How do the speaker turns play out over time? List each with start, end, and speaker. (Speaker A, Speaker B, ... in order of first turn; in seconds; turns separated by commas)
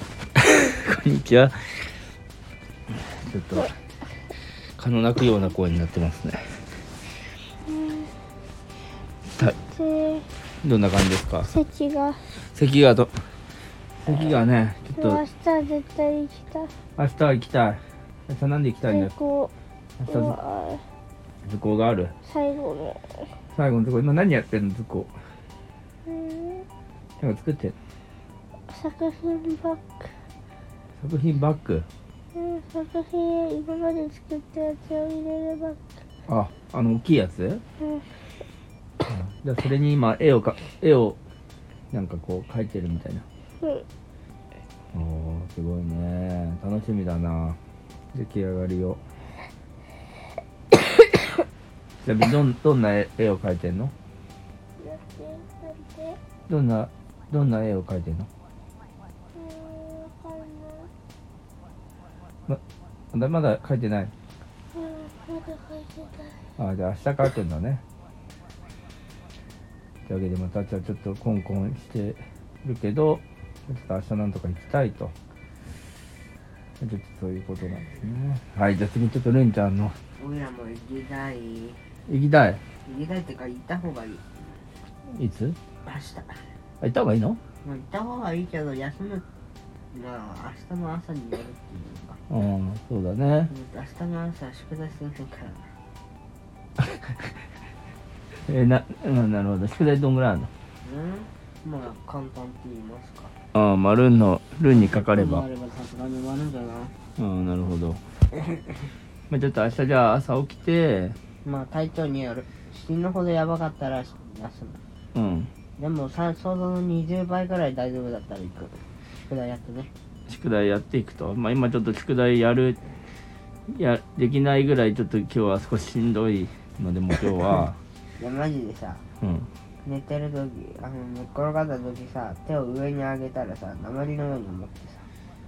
Speaker A: 0.4-1.6, Speaker A: 2.9-3.7, Speaker A: 4.8-6.6, Speaker B: 7.7-8.1, Speaker B: 9.4-10.2, Speaker A: 10.6-11.5, Speaker B: 11.5-12.2, Speaker A: 12.4-13.2, Speaker A: 14.0-15.2, Speaker B: 15.0-16.7, Speaker A: 17.0-19.1, Speaker B: 18.9-19.5, Speaker A: 20.0-20.4, Speaker B: 20.1-20.8, Speaker A: 21.4-22.1, Speaker B: 22.3-23.2, Speaker A: 23.5-25.1, Speaker B: 26.1-26.6, Speaker A: 27.2-27.8, Speaker B: 28.7-29.9, Speaker A: 31.0-31.9, Speaker B: 32.3-35.8, Speaker A: 36.3-37.6, Speaker A: 39.1-41.2, Speaker A: 41.9-43.2, Speaker A: 44.9-47.6, Speaker A: 48.1-49.0, Speaker A: 52.0-53.9, Speaker B: 54.8-56.2, Speaker A: 56.5-58.3, Speaker B: 59.3-60.9, Speaker A: 63.1-64.1, Speaker B: 64.7-66.3, Speaker A: 66.6-67.8, Speaker A: 70.1-75.1, Speaker A: 76.8-80.0, Speaker C: 80.2-81.8, Speaker A: 82.1-82.6, Speaker C: 82.8-84.5, Speaker A: 85.1-85.6, Speaker C: 85.8-86.4, Speaker A: 86.8-87.4, Speaker C: 87.6-89.2, Speaker C: 89.9-92.2, Speaker A: 92.3-93.5, Speaker C: 93.5-95.7, Speaker A: 96.8-97.2, Speaker A: 98.5-100.5, Speaker C: 100.8-103.3, Speaker A: 103.5-105.4, Speaker C: 104.8-106.9, Speaker A: 107.2-108.0, Speaker C: 108.3-108.6, Speaker A: 109.3-111.2, Speaker C: 111.4-114.8, Speaker A: 115.1-115.5, Speaker C: 115.8-119.9, Speaker A: 120.3-122.8, Speaker A: 123.7-127.8, Speaker C: 128.2-129.0, Speaker A: 129.2-129.5, Speaker C: 129.8-135.1